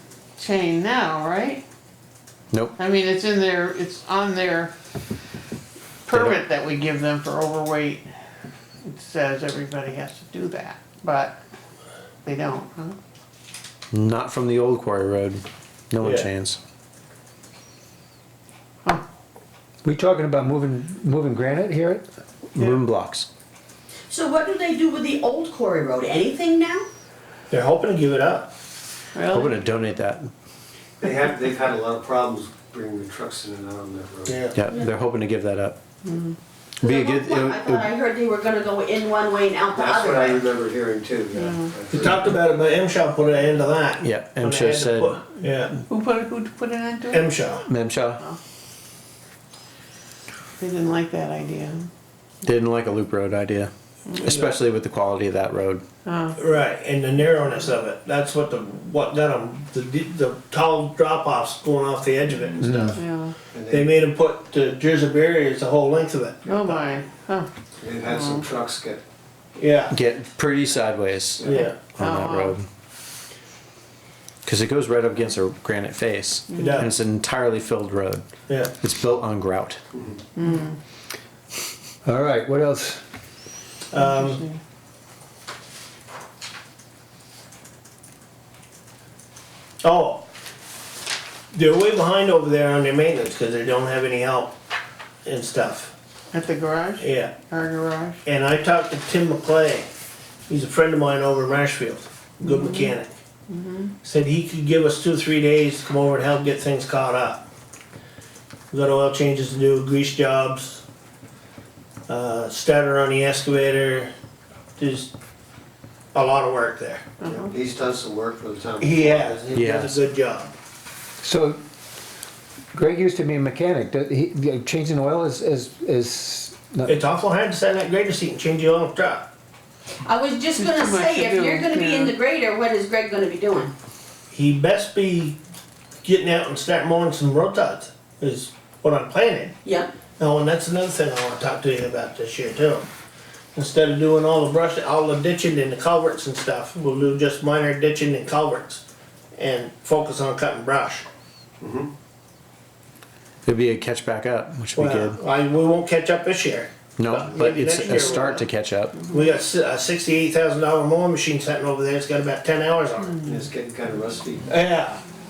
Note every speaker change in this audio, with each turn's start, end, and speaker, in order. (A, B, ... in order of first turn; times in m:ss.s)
0:00.4-0:01.6 A
0:02.5-0:02.8 B
0:02.8-0:04.7 A
0:06.0-0:08.0 A
0:06.1-0:06.4 B
0:08.8-0:11.4 A
0:12.2-0:13.0 A
0:13.9-0:16.6 B
0:16.0-0:16.3 C
0:19.8-0:22.0 D
0:22.5-0:23.3 B
0:24.1-0:26.9 E
0:27.5-0:28.5 C
0:29.2-0:29.6 A
0:29.3-0:30.3 B
0:31.0-0:34.5 F
0:34.3-0:34.6 C
0:34.5-0:35.8 B
0:34.6-0:34.9 E
0:36.0-0:36.4 A
0:36.8-0:37.9 B
0:36.8-0:40.5 E
0:39.7-0:42.4 F
0:41.3-0:41.7 A
0:41.9-0:45.7 C
0:44.0-0:45.3 B
0:45.9-0:47.3 A
0:47.1-0:47.6 C
0:47.7-0:48.2 B
0:50.6-0:51.9 A
0:52.4-0:55.8 B
0:54.2-0:54.6 C
0:56.0-0:56.4 A
0:56.4-1:03.0 C
1:02.6-1:03.0 D
1:03.0-1:03.3 A
1:03.5-1:03.9 F
1:03.7-1:06.9 C
1:06.4-1:07.5 A
1:07.8-1:09.0 F
1:08.0-1:08.5 A
1:09.6-1:10.0 C
1:09.9-1:12.7 B
1:11.4-1:11.8 C
1:11.5-1:12.6 A
1:14.4-1:18.2 B
1:16.5-1:16.8 A
1:16.6-1:16.9 C
1:18.5-1:18.7 C
1:18.8-1:19.8 B
1:20.4-1:20.8 A
1:22.0-1:23.0 D
1:23.9-1:24.4 C
1:23.9-1:24.6 A
1:29.8-1:30.2 C
1:31.5-1:34.5 C
1:35.2-1:35.9 C
1:36.3-1:38.2 A
1:37.0-1:37.3 C
1:38.2-1:39.9 C
1:40.5-1:43.1 C
1:42.4-1:43.0 A
1:43.5-1:43.9 A
1:44.0-1:47.5 C
1:48.7-1:50.8 C
1:52.1-1:54.1 C
1:54.8-1:55.1 C
1:56.1-1:57.2 C
1:57.2-1:57.6 A
1:57.2-1:59.5 F
1:58.8-2:00.5 C
1:59.5-2:00.0 B
2:01.2-2:01.6 D
2:02.7-2:07.0 D
2:06.9-2:09.3 C
2:10.0-2:13.7 E
2:10.6-2:12.1 A
2:14.3-2:15.4 C
2:16.0-2:19.6 C
2:19.6-2:19.9 E
2:20.2-2:22.9 C
2:23.5-2:28.8 C
2:29.3-2:31.1 C
2:31.6-2:31.9 F
2:33.4-2:35.2 B
2:34.7-2:38.4 C
2:37.0-2:39.0 B
2:37.9-2:38.4 A
2:39.1-2:43.2 C
2:43.2-2:44.5 F
2:44.5-2:45.0 C